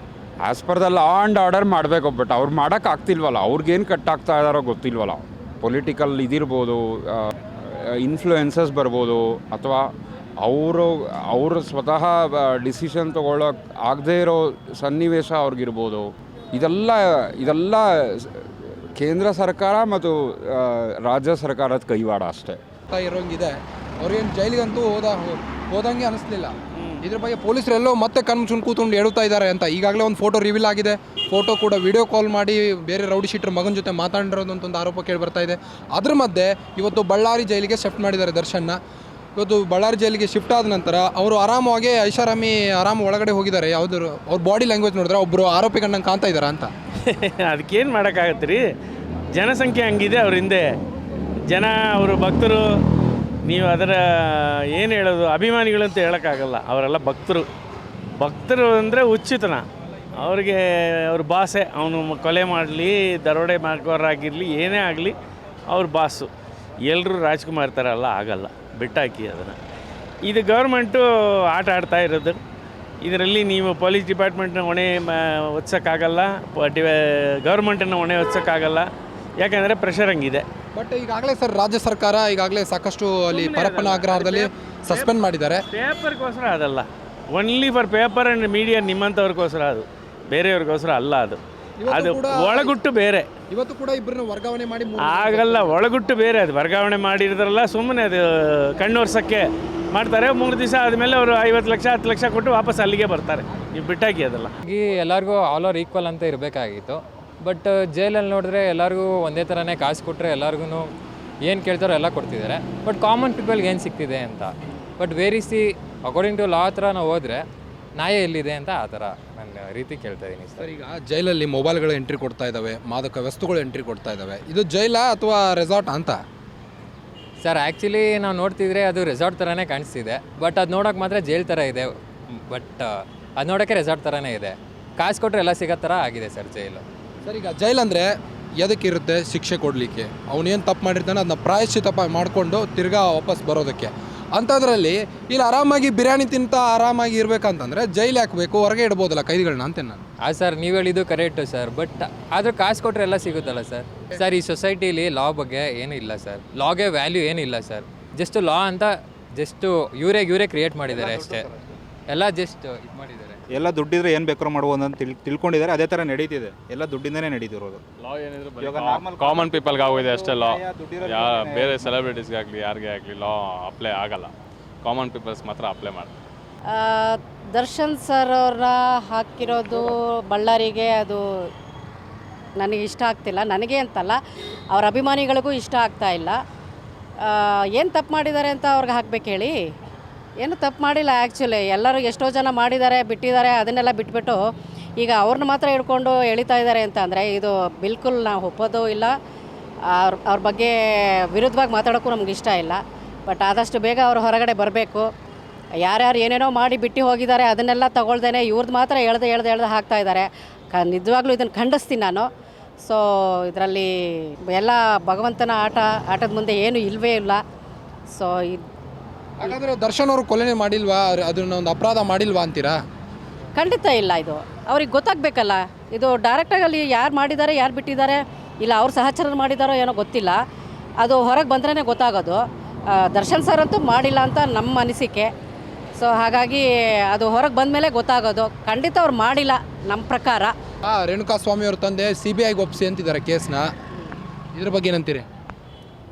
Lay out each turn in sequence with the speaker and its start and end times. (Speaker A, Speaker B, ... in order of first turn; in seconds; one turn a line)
Speaker A: 0.4-22.6
Speaker B: 22.9-38.8
Speaker B: 39.4-46.7
Speaker C: 47.0-48.6
Speaker C: 49.4-50.7
Speaker C: 51.5-52.6
Speaker C: 53.5-57.5
Speaker C: 58.2-59.7
Speaker C: 60.2-65.2
Speaker C: 65.7-66.3
Speaker C: 66.9-69.6
Speaker C: 70.2-72.4
Speaker C: 73.0-78.9
Speaker C: 79.4-80.5
Speaker B: 80.7-85.7
Speaker C: 83.3-93.3
Speaker B: 91.8-92.7
Speaker B: 93.5-95.8
Speaker C: 95.0-104.5
Speaker D: 104.7-110.9
Speaker D: 111.4-117.5
Speaker D: 118.0-120.7
Speaker B: 120.6-126.2
Speaker D: 127.4-136.8
Speaker B: 137.2-150.0
Speaker D: 150.2-161.5
Speaker E: 161.0-161.4
Speaker D: 162.1-163.4
Speaker E: 163.5-167.8
Speaker F: 168.0-176.2
Speaker E: 168.5-172.0
Speaker G: 176.7-181.5
Speaker G: 182.6-184.2
Speaker G: 184.7-186.4
Speaker G: 187.2-189.5
Speaker G: 190.4-194.4
Speaker G: 195.0-199.1
Speaker G: 199.9-200.8
Speaker G: 201.3-205.1
Speaker G: 205.8-212.3
Speaker G: 212.8-217.4
Speaker G: 218.1-218.7
Speaker B: 219.4-222.8
Speaker G: 223.6-230.4
Speaker G: 231.0-232.4
Speaker G: 232.9-235.3
Speaker G: 236.0-240.5
Speaker B: 240.8-243.7
Speaker B: 244.6-245.2